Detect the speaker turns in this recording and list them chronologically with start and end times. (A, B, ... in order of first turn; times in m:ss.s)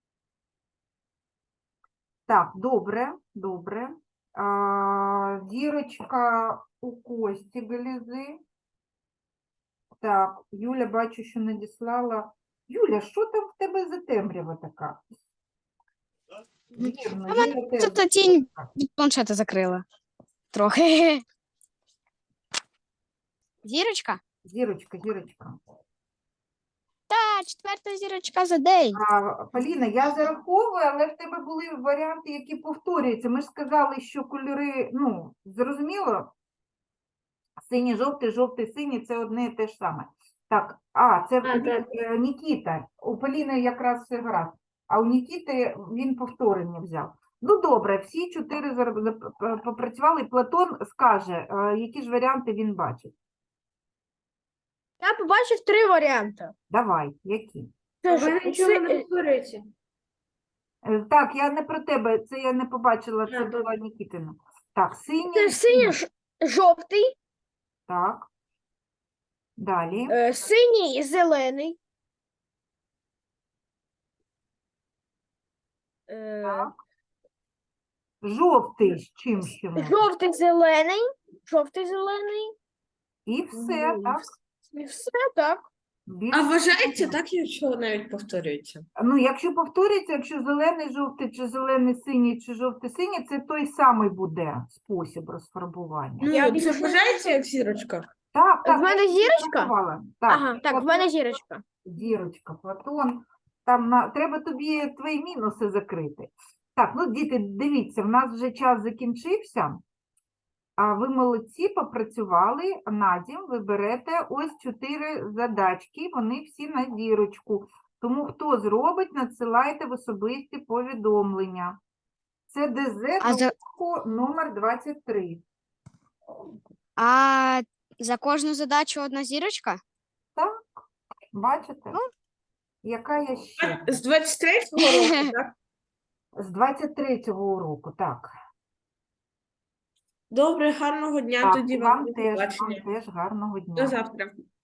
0:02.3-0:08.4 A
0:10.0-0:15.0 A
0:16.7-0:18.7 A
0:16.8-0:19.8 B
0:20.5-0:21.2 B
0:23.6-0:24.2 B
0:24.4-0:25.6 A
0:27.1-0:29.0 B
0:28.9-0:36.3 A
0:37.6-0:53.1 A
0:41.4-0:41.9 C
0:55.0-0:56.5 D
0:56.7-0:57.7 A
0:58.0-0:59.0 D
0:58.0-0:59.6 C
1:00.8-1:06.0 A
1:03.3-1:03.7 C
1:05.3-1:07.2 D
1:07.9-1:08.3 A
1:09.6-1:10.2 A
1:10.1-1:11.8 D
1:16.1-1:16.7 D
1:16.4-1:16.8 A
1:18.2-1:20.0 A
1:19.8-1:22.6 D
1:23.3-1:24.3 A
1:23.5-1:25.7 D
1:26.1-1:27.2 A
1:26.3-1:28.9 E
1:29.0-1:36.7 A
1:36.2-1:38.1 E
1:36.3-1:37.3 D
1:38.3-1:49.8 A
1:38.6-1:39.7 D
1:40.3-1:41.6 D
1:50.8-2:01.8 A
2:02.5-2:05.4 A
2:03.2-2:03.5 B
2:07.0-2:09.8 B
2:10.4-2:12.0 A
2:12.8-2:14.0 A
2:13.6-2:15.5 E
2:14.8-2:15.3 B
2:16.4-2:18.3 A
2:20.3-2:22.8 E
2:21.4-2:24.0 A
2:23.8-2:24.3 E